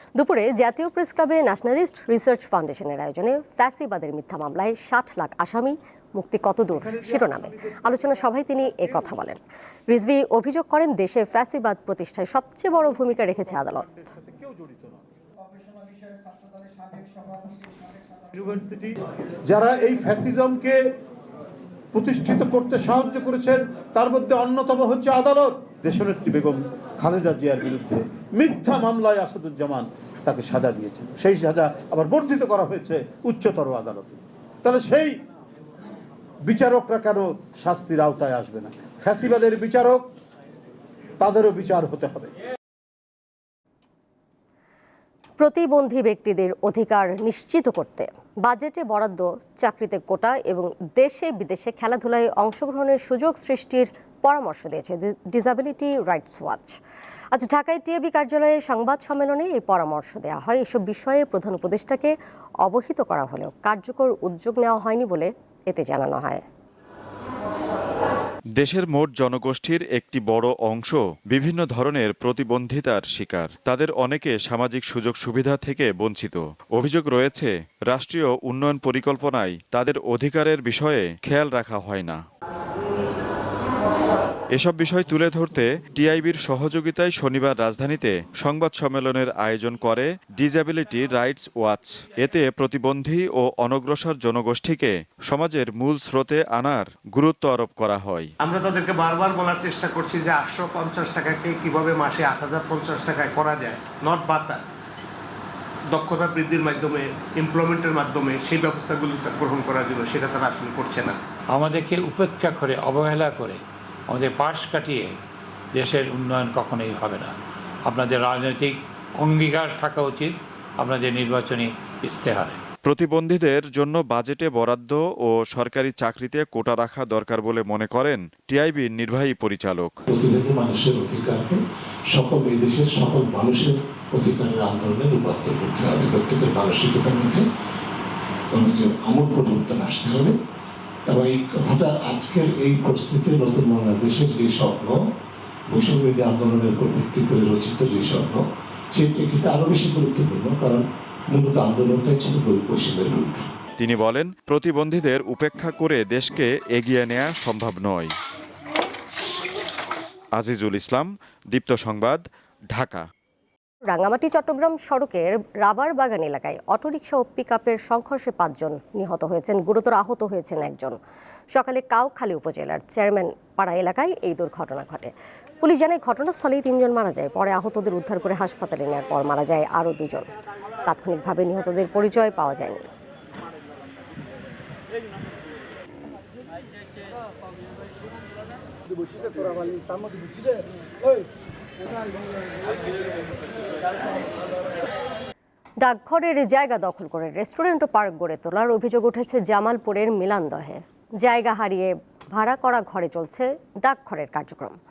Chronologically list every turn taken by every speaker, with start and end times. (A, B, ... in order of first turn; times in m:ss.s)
0:00.2-0:13.9 A
0:06.7-0:07.8 B
0:14.2-0:15.0 B
0:18.4-0:18.9 B
0:19.5-0:20.8 B
0:21.9-0:35.1 B
0:36.4-0:40.0 B
0:41.2-0:42.3 B
0:45.4-0:56.8 A
0:57.3-1:06.4 A
1:08.6-1:22.2 C
1:24.5-1:38.3 C
1:38.4-1:44.6 D
1:46.0-1:51.2 D
1:51.5-1:53.6 E
1:54.1-1:55.1 E
1:55.7-1:57.3 E
1:57.9-2:02.6 E
2:02.8-2:09.9 C
2:10.1-2:11.6 F
2:12.1-2:17.4 F
2:18.5-2:20.4 F
2:21.1-2:25.0 F
2:25.7-2:28.4 F
2:28.9-2:33.5 F
2:33.8-2:38.1 C
2:40.4-2:42.2 C
2:42.7-2:43.0 C
2:43.9-2:51.0 A
2:51.5-3:00.3 A
3:00.8-3:02.9 A
3:15.8-3:24.8 A